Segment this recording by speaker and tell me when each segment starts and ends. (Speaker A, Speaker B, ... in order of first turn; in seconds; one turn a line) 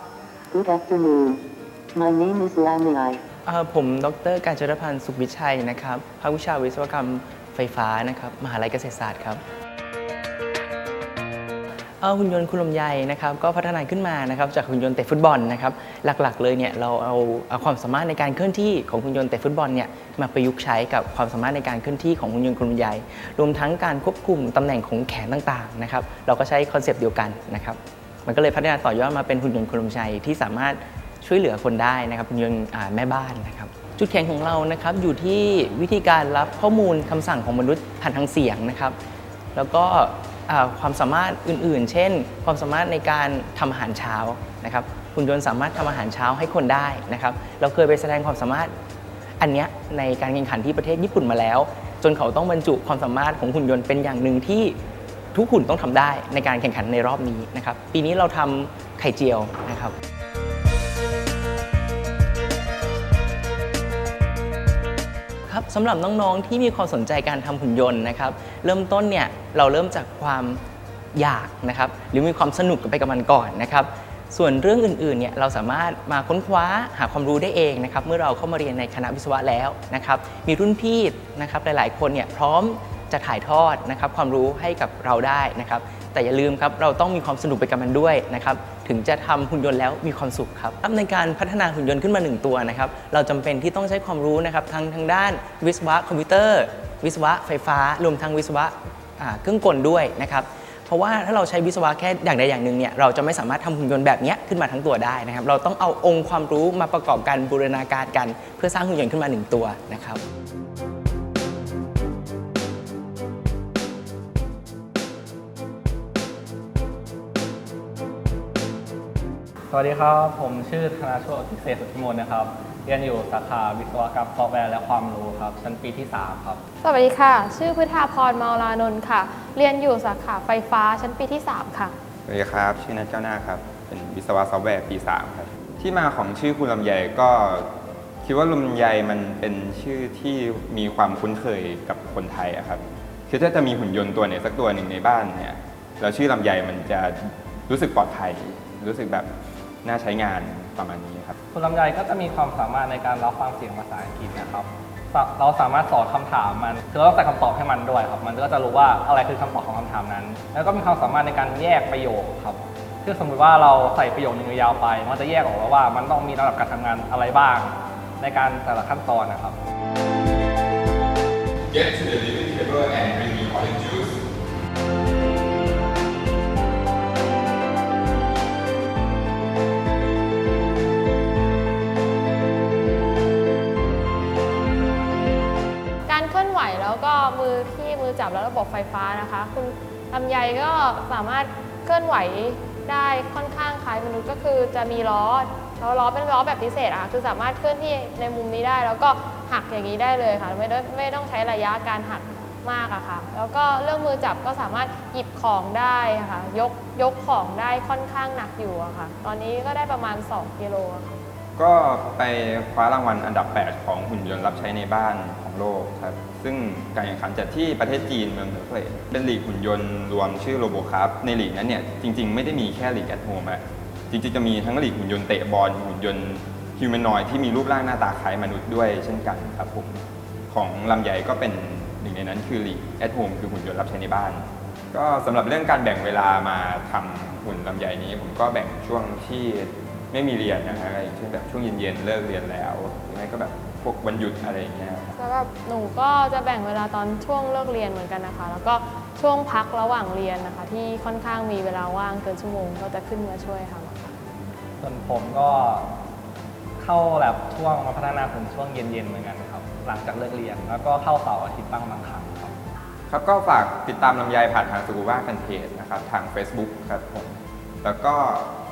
Speaker A: 0.5-1.4
Speaker A: 1.9-3.2
Speaker B: 3.4-9.4
Speaker B: 12.0-38.9
Speaker B: 39.5-48.7
Speaker B: 49.4-54.8
Speaker B: 55.3-59.9
Speaker B: 65.5-70.6
Speaker B: 71.1-110.2
Speaker C: 119.7-126.6
Speaker D: 126.8-131.9
Speaker E: 132.3-137.7
Speaker E: 138.2-149.3
Speaker E: 149.8-151.3
Speaker C: 151.5-169.6
Speaker E: 171.7-174.2
Speaker D: 186.1-211.2
Speaker E: 211.6-245.1
Speaker D: 245.2-254.1
Speaker C: 254.8-255.9
Speaker C: 256.8-262.5
Speaker E: 263.1-268.5